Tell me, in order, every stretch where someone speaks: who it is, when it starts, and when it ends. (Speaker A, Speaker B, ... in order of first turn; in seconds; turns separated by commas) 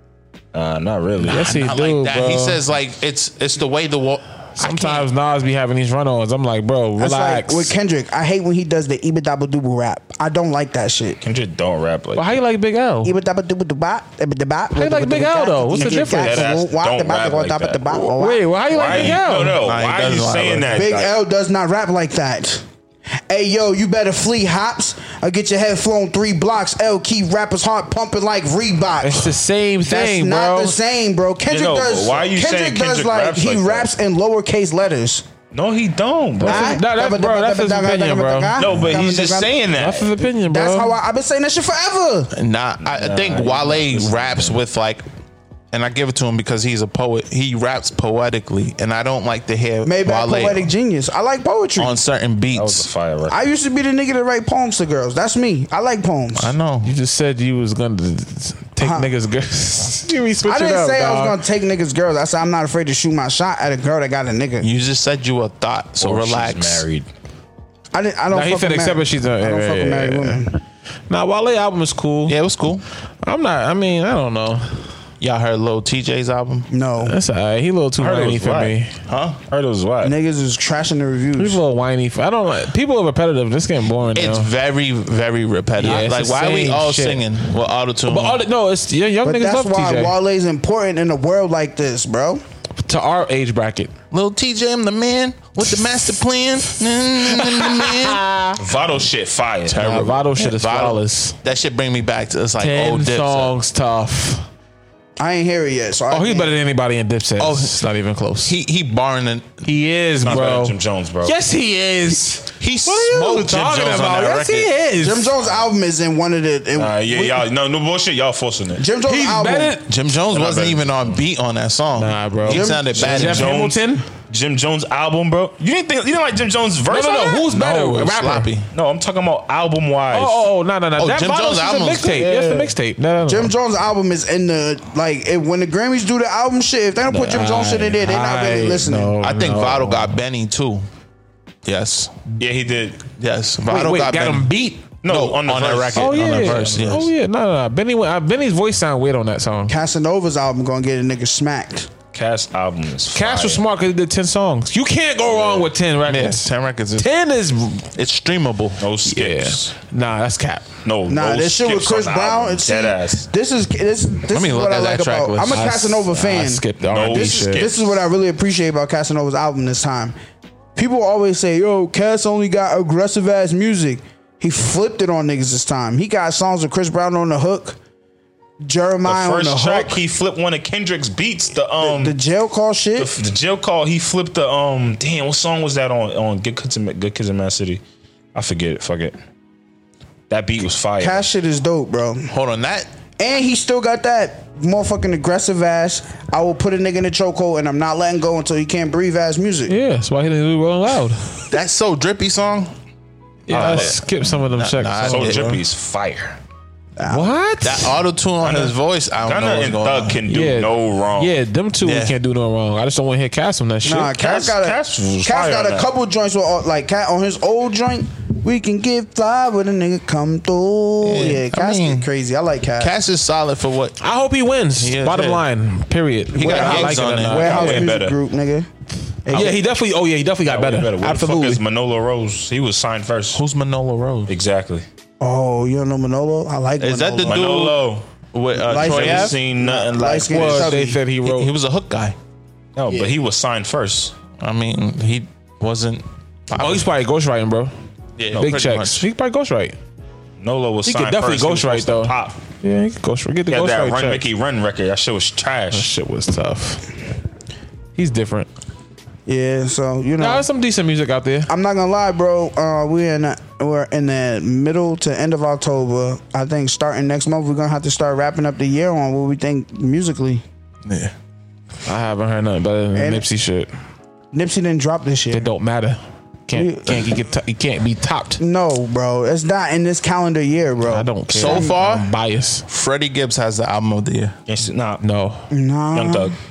Speaker A: 0.5-1.5, Speaker B: 1.3-2.6, Speaker C: 1.3-5.1, Speaker B: 4.6-7.7, Speaker D: 7.0-11.2, Speaker A: 11.2-12.2, Speaker B: 12.2-13.1, Speaker D: 13.0-18.5, Speaker B: 14.8-16.5, Speaker A: 15.8-17.9, Speaker B: 18.0-19.6, Speaker A: 18.7-21.1, Speaker C: 18.8-20.8, Speaker D: 20.7-22.6, Speaker D: 23.3-29.3, Speaker B: 29.0-30.8, Speaker D: 29.9-35.2, Speaker A: 31.5-33.9, Speaker A: 35.5-36.8, Speaker B: 36.4-38.6, Speaker D: 36.4-39.6, Speaker A: 38.6-40.1, Speaker B: 39.7-41.0, Speaker D: 40.4-42.3, Speaker C: 42.3-45.0, Speaker A: 42.8-44.6, Speaker C: 45.7-50.7, Speaker D: 49.9-52.0, Speaker C: 51.8-52.9, Speaker A: 52.5-53.4, Speaker D: 53.3-56.5, Speaker C: 56.4-56.9, Speaker B: 56.8-61.4, Speaker D: 58.8-59.1, Speaker D: 60.5-64.7, Speaker C: 64.6-66.8, Speaker A: 66.0-67.1, Speaker D: 67.9-70.6, Speaker B: 68.3-70.5, Speaker B: 71.1-72.4, Speaker C: 72.3-72.8, Speaker B: 73.2-74.9, Speaker C: 75.2-76.7, Speaker D: 76.7-77.2, Speaker B: 77.0-78.9, Speaker A: 78.0-78.8, Speaker C: 79.1-79.4, Speaker A: 79.5-80.1, Speaker D: 80.0-81.6, Speaker B: 81.4-84.5, Speaker C: 84.1-88.4, Speaker B: 85.8-87.2, Speaker B: 88.1-90.2, Speaker D: 89.2-92.4, Speaker B: 92.8-93.9, Speaker C: 94.1-98.2, Speaker B: 97.3-98.6, Speaker A: 98.6-99.9, Speaker C: 99.7-103.5, Speaker B: 99.8-101.4, Speaker B: 102.6-104.5, Speaker D: 105.2-106.5, Speaker B: 106.1-108.5, Speaker C: 107.4-107.8, Speaker C: 108.4-109.6, Speaker B: 109.6-115.4, Speaker A: 110.2-111.3, Speaker C: 112.6-114.7, Speaker D: 115.0-117.5, Speaker A: 116.8-118.8, Speaker D: 118.8-119.8, Speaker B: 119.0-119.9, Speaker C: 119.9-123.6, Speaker A: 120.3-121.2, Speaker B: 122.0-124.0, Speaker D: 122.5-123.3, Speaker A: 123.0-127.5, Speaker B: 126.9-128.5, Speaker C: 127.5-128.7, Speaker A: 128.7-130.5, Speaker B: 130.1-133.5, Speaker C: 131.0-132.3, Speaker A: 132.1-132.7, Speaker D: 133.3-139.2, Speaker B: 137.1-140.1, Speaker C: 139.2-140.9, Speaker C: 141.7-142.2, Speaker A: 142.4-143.0, Speaker C: 143.2-144.5, Speaker B: 143.7-145.0, Speaker A: 145.0-146.8, Speaker C: 145.0-147.1, Speaker B: 145.9-149.7, Speaker D: 149.7-151.9, Speaker A: 152.1-153.6, Speaker B: 153.1-157.9, Speaker A: 155.3-155.7, Speaker C: 156.1-157.1, Speaker C: 157.9-158.9, Speaker A: 158.8-159.7, Speaker B: 159.1-160.7, Speaker A: 160.8-163.3, Speaker D: 161.1-170.2, Speaker C: 164.3-165.7, Speaker B: 165.3-167.7, Speaker A: 166.9-168.0, Speaker D: 170.8-177.8, Speaker D: 178.6-180.0, Speaker A: 179.1-182.2, Speaker D: 181.8-183.1, Speaker A: 183.0-187.8, Speaker A: 188.3-189.2, Speaker A: 190.3-191.3, Speaker D: 191.0-192.3, Speaker C: 192.3-192.9, Speaker D: 193.2-199.8, Speaker B: 199.7-201.5, Speaker C: 201.5-202.7, Speaker B: 203.5-205.5, Speaker C: 203.5-205.6, Speaker A: 203.5-203.9, Speaker A: 205.1-206.4, Speaker D: 207.0-207.3, Speaker B: 207.1-208.0, Speaker C: 207.6-210.2, Speaker A: 208.4-211.3, Speaker B: 210.3-214.2, Speaker C: 211.8-212.1, Speaker D: 213.8-222.9, Speaker A: 214.1-215.9, Speaker C: 221.0-222.1, Speaker C: 222.8-224.0, Speaker B: 224.0-227.8, Speaker C: 224.8-225.4, Speaker C: 226.3-227.7, Speaker D: 226.3-228.7, Speaker A: 227.3-228.2, Speaker D: 229.2-229.6, Speaker B: 229.3-231.6, Speaker A: 230.5-233.4, Speaker C: 233.3-234.3, Speaker A: 234.3-234.9, Speaker D: 235.2-237.5, Speaker C: 236.8-237.8, Speaker A: 237.3-238.1, Speaker C: 238.3-239.4, Speaker D: 238.6-241.0, Speaker A: 238.8-240.8, Speaker B: 240.3-241.5, Speaker C: 241.2-242.2, Speaker A: 242.8-244.1, Speaker C: 244.4-246.9, Speaker B: 246.6-247.7, Speaker C: 248.2-249.0, Speaker B: 248.3-249.8, Speaker A: 250.4-252.4, Speaker B: 250.8-254.2, Speaker A: 253.5-255.9, Speaker B: 255.7-256.9, Speaker B: 258.0-258.5, Speaker D: 259.3-260.5, Speaker B: 260.2-261.5, Speaker D: 261.5-270.4, Speaker C: 270.9-271.1, Speaker B: 271.9-273.7, Speaker D: 272.9-273.2, Speaker D: 274.3-275.5, Speaker B: 275.3-278.4, Speaker D: 276.5-277.0, Speaker D: 278.4-281.7, Speaker B: 280.8-282.6, Speaker C: 281.3-282.1, Speaker C: 282.7-284.4, Speaker A: 284.5-285.0, Speaker B: 285.0-285.4, Speaker D: 285.5-286.3, Speaker A: 285.9-286.4